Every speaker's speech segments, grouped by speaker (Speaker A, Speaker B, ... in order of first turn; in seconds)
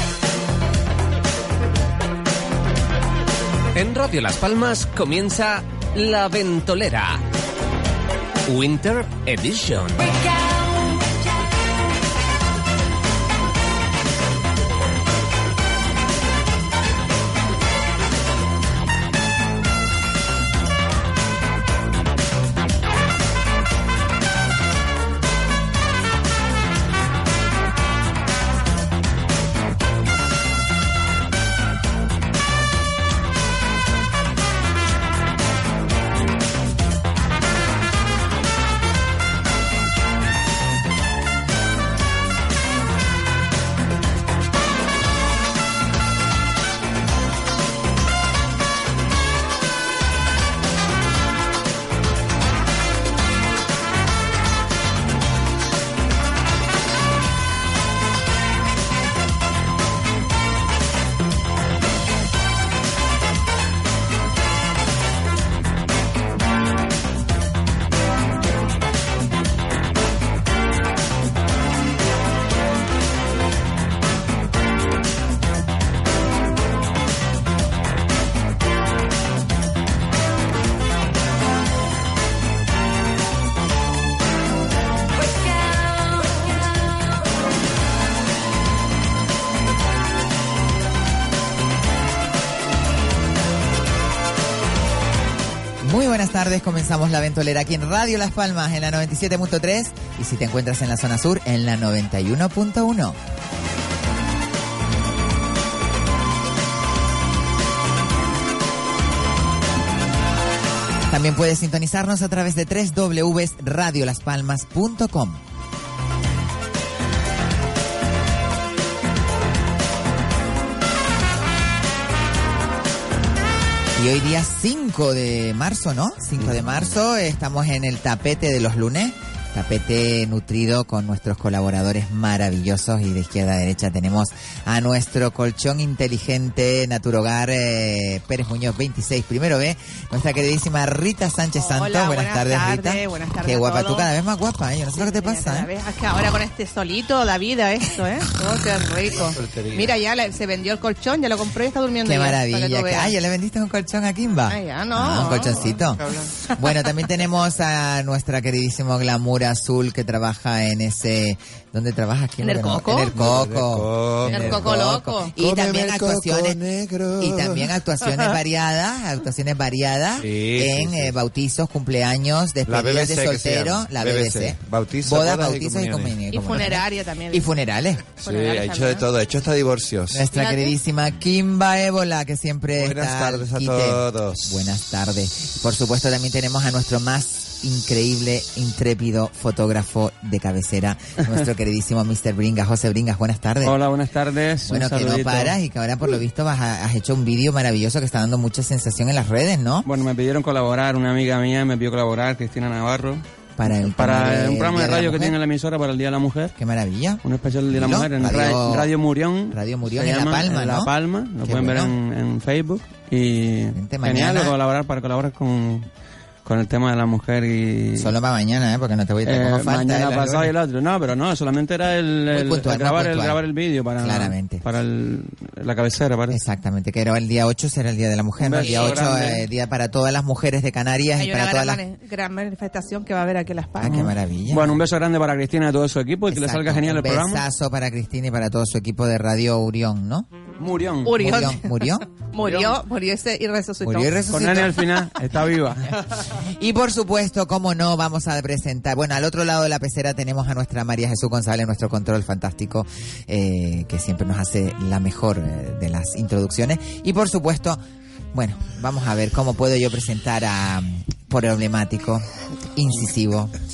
Speaker A: 3.8-7.2, 8.5-10.2
Speaker B: 95.8-103.2, 111.1-115.4, 124.0-145.7, 152.0-166.6, 167.2-178.0, 180.1-193.8, 194.7-199.9, 203.6-205.4, 206.6-208.9, 209.5-211.9, 213.7-214.5, 218.0-220.5, 222.3-223.4, 224.0-224.6, 226.3-231.8, 233.8-234.8, 236.3-240.3, 241.1-242.1, 243.8-245.1, 246.3-257.8, 258.3-262.2, 262.7-263.5
Speaker C: 141.6-144.1, 145.0-153.1, 154.5-156.3, 162.4-163.1, 164.3-165.3, 176.3-177.5, 178.2-179.1, 180.3-180.8, 228.6-229.0, 231.2-234.0, 241.1-244.2
Speaker D: 149.3-149.9, 163.1-164.8, 165.4-167.7, 170.2-171.1, 172.7-176.2, 178.2-180.2, 182.8-184.5
Speaker E: 193.6-195.6, 199.8-206.5, 207.2-215.9, 216.4-218.1, 219.3-226.4, 228.4-229.4, 233.9-237.4, 240.6-241.2, 242.4-242.7, 244.3-246.0